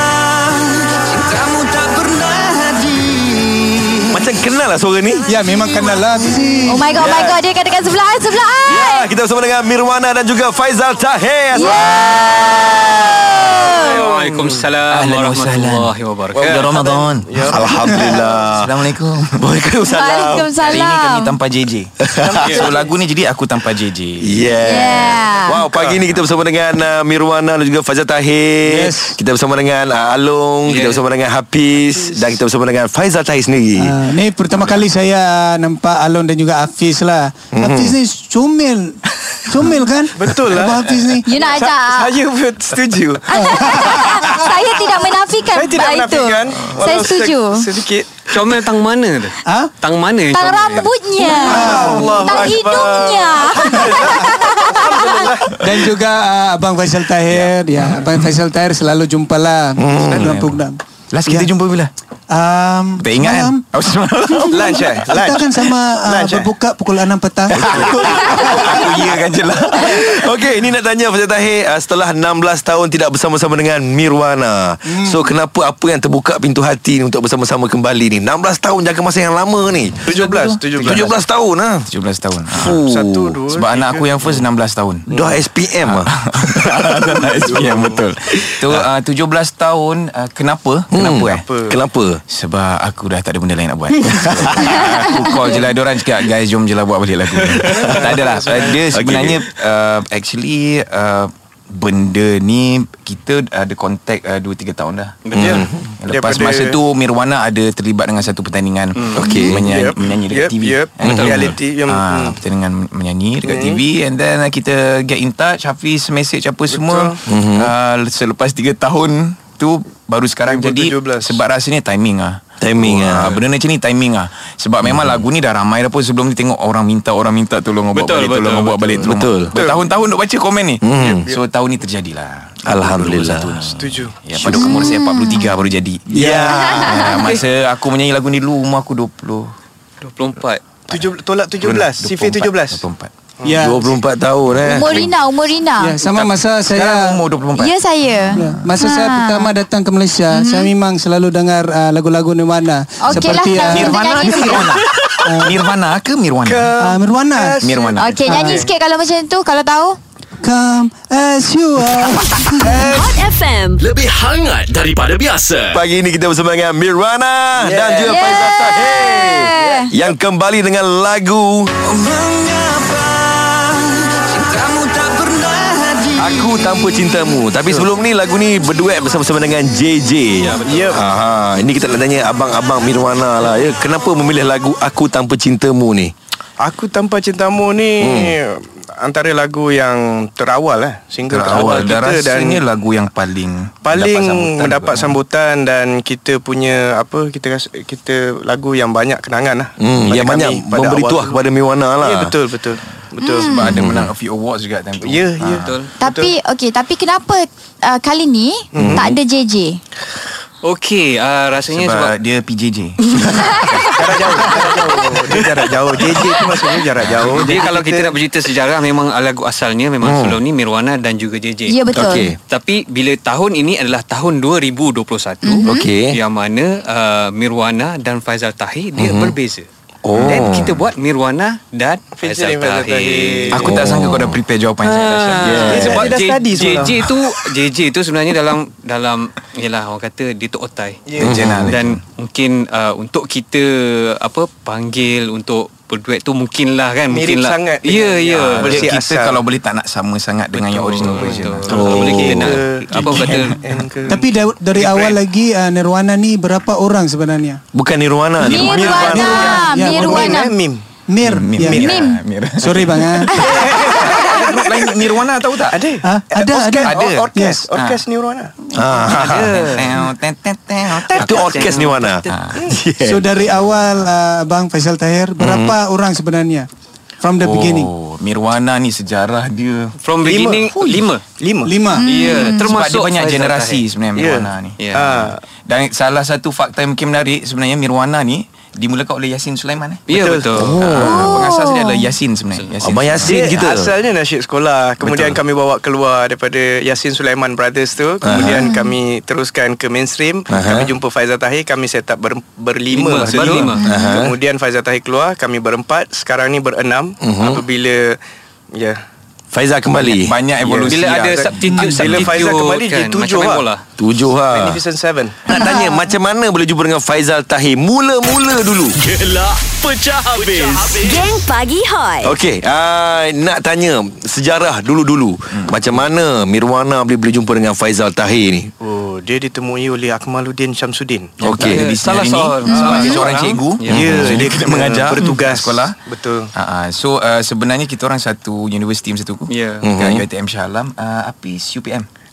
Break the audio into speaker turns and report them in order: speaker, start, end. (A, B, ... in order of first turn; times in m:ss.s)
0:04.1-0:05.2 A
0:05.3-0:06.9 B
0:06.7-0:09.1 C
0:06.9-0:07.4 A
0:08.7-0:13.2 A
0:11.5-0:14.0 C
0:13.7-0:16.8 D
0:13.8-0:14.7 E
0:14.9-0:17.6 F
0:16.4-0:18.3 E
0:17.4-0:18.8 A
0:18.6-0:19.4 F
0:19.4-0:20.6 A
0:19.9-0:21.3 C
0:20.6-0:24.4 F
0:22.0-0:22.5 A
0:22.2-0:22.9 E
0:24.2-0:34.0 A
0:24.6-0:25.7 C
0:28.6-0:29.2 B
0:30.7-0:31.0 D
0:33.8-0:41.4 B
0:37.5-0:38.0 A
0:40.2-0:44.4 E
0:41.2-0:42.2 C
0:43.3-0:47.7 C
0:43.3-0:44.4 B
0:45.5-0:48.4 E
0:48.3-0:50.9 D
0:49.5-0:49.7 B
0:50.3-0:55.3 C
0:51.4-0:52.1 B
0:51.4-0:53.4 A
0:51.6-0:55.9 E
0:55.5-1:01.5 B
0:59.8-1:00.4 A
1:00.2-1:00.5 F
1:01.1-1:01.9 F
1:02.3-1:03.6 B
1:03.0-1:05.0 F
1:04.5-1:06.5 E
1:04.9-1:07.9 B
1:07.6-1:10.2 F
1:07.6-1:08.5 A
1:07.6-1:08.4 E
1:09.8-1:20.0 A
1:14.9-1:15.2 B
1:20.0-1:21.1 F
1:20.0-1:21.2 E
1:20.8-1:21.9 A
1:21.9-1:22.8 F
1:22.5-1:23.4 A
1:22.8-1:24.4 E
1:23.5-1:25.1 F
1:25.1-1:25.4 E
1:25.1-1:26.2 A
1:25.9-1:31.5 F
1:27.4-1:28.0 E
1:30.9-1:32.2 A
1:31.4-1:31.8 E
1:32.3-1:45.4 F
1:34.3-1:34.6 A
1:34.6-1:35.5 C
1:37.6-1:38.8 E
1:38.9-1:39.4 A
1:45.2-1:45.7 D
1:45.4-1:45.9 A
1:45.4-1:46.8 E
1:46.0-2:19.5 F
1:49.0-1:49.4 D
1:49.1-1:52.4 E
1:49.2-1:49.7 A
1:51.0-1:51.5 A
1:53.4-1:53.8 E
1:56.7-1:57.2 E
1:57.3-1:57.7 A
2:00.5-2:01.4 E
2:02.6-2:03.4 A
2:07.9-2:09.2 D
2:09.0-2:09.6 A
2:09.6-2:09.8 E
2:10.8-2:11.3 A
2:11.0-2:11.4 E
2:12.7-2:13.6 A
2:13.8-2:14.2 E
2:14.4-2:15.6 C
2:16.1-2:17.1 A
2:16.6-2:17.2 C
2:20.0-2:20.6 D
2:20.9-2:22.8 E
2:20.9-2:23.1 F
2:23.4-2:23.7 E
2:23.4-2:23.8 B
2:23.6-2:25.0 A
2:24.6-2:26.0 C
2:24.8-2:25.1 F
2:25.8-2:27.2 B
2:26.1-2:27.8 F
2:27.5-2:29.5 C
2:28.4-2:34.0 B
2:28.4-2:28.7 F
2:30.3-2:30.7 C
2:33.0-2:34.8 C
2:33.7-2:36.8 F
2:34.0-2:34.6 A
2:35.2-2:35.5 B
2:36.4-2:38.7 E
2:36.8-2:37.6 B
2:37.6-2:38.3 F
2:38.0-2:40.0 C
2:38.3-2:38.6 B
2:40.4-2:42.8 B
2:42.6-2:43.0 E
2:42.8-2:43.8 G
2:43.8-2:45.8 H
2:45.7-2:51.9 A
2:47.6-2:48.1 E
2:48.0-2:49.9 C
2:56.1-3:06.1 A
3:00.5-3:01.1 D
3:00.6-3:01.1 E
3:06.6-3:12.6 E
3:08.0-3:08.3 A
3:11.3-3:15.2 F
3:13.8-3:21.5 E
3:19.8-3:22.4 A
3:22.0-3:23.6 E
3:23.2-3:23.8 C
3:23.4-3:25.8 F
3:23.6-3:24.1 A
3:25.0-3:26.3 E
3:25.6-3:25.9 D
3:26.0-3:29.8 C
3:28.8-3:29.1 E
3:28.8-3:29.1 A
3:30.6-3:32.2 D
3:31.7-3:33.9 F
3:33.1-3:33.6 D
3:33.9-3:38.2 E
3:37.0-3:37.5 F
3:37.2-3:41.8 D
3:40.0-3:40.4 A
3:41.7-3:42.3 C
3:41.9-3:42.4 A
3:42.4-3:49.7 D
3:45.4-3:45.9 C
3:45.6-3:46.2 A
3:49.0-3:49.3 A
3:50.0-3:50.8 A
3:50.2-3:50.5 F
3:50.2-3:53.7 D
3:52.2-3:53.8 E
3:53.5-3:55.8 F
3:53.6-3:54.3 A
3:54.8-4:01.2 D
3:55.4-3:56.1 A
3:55.7-3:57.1 E
4:01.1-4:01.4 E
4:01.2-4:02.0 F
4:01.2-4:01.8 A
4:01.7-4:08.9 D
4:07.1-4:09.4 E
4:08.5-4:13.6 F
4:10.5-4:13.6 D
4:11.2-4:15.2 E
4:11.7-4:12.6 A
4:14.1-4:17.6 B
4:17.7-4:19.6 A
4:18.4-4:20.5 C
4:18.7-4:20.8 E
4:18.9-4:20.4 B
4:21.1-4:21.8 B
4:21.2-4:25.8 F
4:21.6-4:22.0 E
4:21.8-4:22.2 C
4:22.6-4:23.3 B
4:23.3-4:24.2 C
4:23.3-4:28.5 E
4:26.0-4:27.6 B
4:26.8-4:28.0 F
4:28.8-4:29.8 A
4:28.8-4:31.7 F
4:29.1-4:30.0 D
4:31.1-4:33.3 A
4:31.3-4:32.3 D
4:32.3-4:32.7 F
4:33.0-4:36.7 B
4:33.4-4:34.1 F
4:35.4-4:35.8 A
4:37.2-4:37.9 B
4:37.4-4:40.0 F
4:40.0-4:41.2 D
4:40.2-4:41.7 E
4:41.6-4:42.1 B
4:42.0-4:42.7 C
4:42.1-4:43.8 D
4:42.4-4:50.0 F
4:44.2-4:45.4 E
4:44.8-4:45.2 D
4:50.1-4:50.8 D
4:50.1-4:50.7 E
4:50.6-4:51.3 A
4:50.8-4:53.4 F
4:51.0-4:52.1 C
4:52.8-4:53.9 A
4:53.2-5:08.2 E
4:55.0-4:55.4 A
4:58.2-4:58.7 A
4:58.5-4:59.0 C
5:00.5-5:00.9 A
5:02.9-5:03.8 D
5:03.8-5:04.2 C
5:03.8-5:04.4 A
5:07.2-5:07.6 A
5:08.7-5:09.0 E
5:09.5-5:10.9 A
5:10.0-5:12.3 F
5:10.9-5:13.8 D
5:11.3-5:13.6 E
5:11.7-5:12.0 B
5:14.0-5:14.8 A
5:14.5-5:15.5 E
5:15.5-5:19.0 A
5:19.0-5:21.2 H
5:21.0-5:22.4 G
5:22.2-5:28.7 A
5:25.5-5:25.8 F
5:28.8-5:31.4 E
5:31.4-5:31.8 A
5:31.4-5:36.0 F
5:31.5-5:34.1 D
5:32.7-5:33.2 C
5:33.9-5:36.5 E
5:33.9-5:34.4 A
5:36.5-5:42.1 F
5:39.5-5:39.9 D
5:39.8-5:40.2 A